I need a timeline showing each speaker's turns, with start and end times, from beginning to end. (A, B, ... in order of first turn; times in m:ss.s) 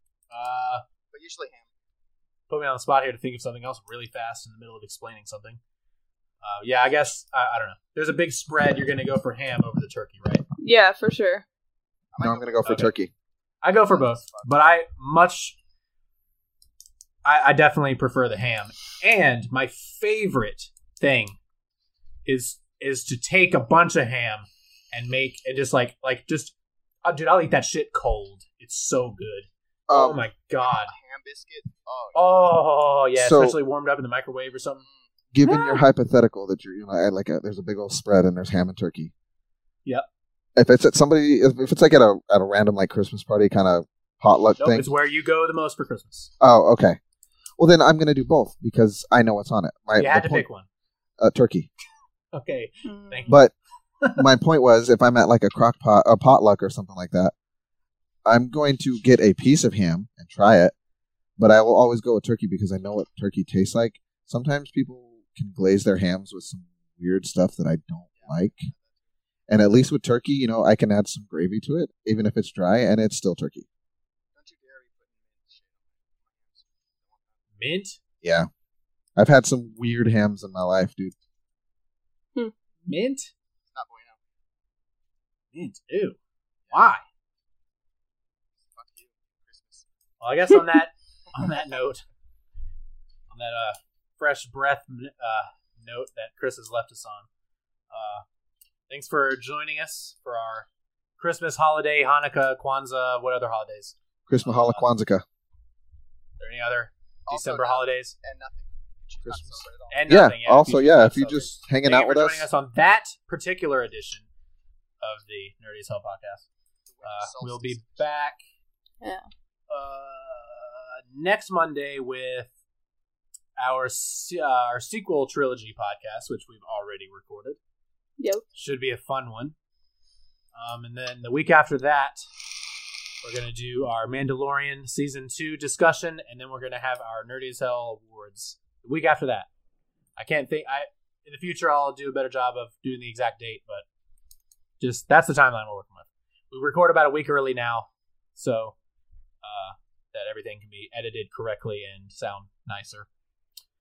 0:00.3-0:00.8 A
0:01.1-0:01.7 B
0:02.5-0:05.6 A
0:06.4-0:10.4 A
0:10.6-0:11.4 C
0:12.1-0:12.9 B
0:12.2-0:13.1 D
0:12.6-0:12.9 A
0:13.6-0:15.6 A
0:13.8-0:14.6 B
0:17.2-0:21.4 A
0:22.3-0:30.9 A
0:29.9-0:30.3 D
0:30.7-0:32.2 B
0:32.2-0:34.8 A
0:33.2-0:33.6 D
0:34.8-0:35.1 B
0:35.3-0:39.1 D
0:35.4-0:35.8 A
0:40.6-0:44.9 D
0:44.6-0:46.3 A
0:46.4-0:47.0 D
0:47.6-0:50.5 D
0:50.0-0:50.7 A
0:51.2-0:51.7 D
0:52.3-0:53.4 A
0:52.8-0:53.4 C
0:53.3-0:53.5 D
0:54.2-0:57.3 D
0:58.2-1:00.7 D
1:01.4-1:08.7 D
1:08.2-1:09.1 B
1:09.5-1:13.7 D
1:14.3-1:17.4 B
1:17.6-1:18.0 A
1:18.2-1:18.5 D
1:19.2-1:21.1 D
1:22.9-1:23.3 A
1:23.7-1:24.2 B
1:25.5-1:26.2 A
1:26.7-1:27.0 A
1:28.7-1:29.9 B
1:30.2-1:32.0 A
1:33.3-1:37.3 A
1:37.9-1:38.2 A
1:38.9-1:40.7 A
1:41.2-1:44.9 A
1:44.3-1:45.2 D
1:46.4-1:48.2 A
1:47.3-1:50.2 B
1:49.2-1:52.5 D
1:49.9-1:54.3 A
1:55.0-1:56.5 A
1:56.9-1:58.2 B
1:57.0-1:58.4 A
1:59.0-1:59.3 C
1:59.7-2:02.5 A
2:03.6-2:07.6 A
2:08.2-2:08.4 C
2:08.5-2:09.6 A
2:10.5-2:12.2 A
2:13.2-2:19.5 A
2:20.2-2:23.8 A
2:24.8-2:28.8 A
2:29.4-2:33.1 A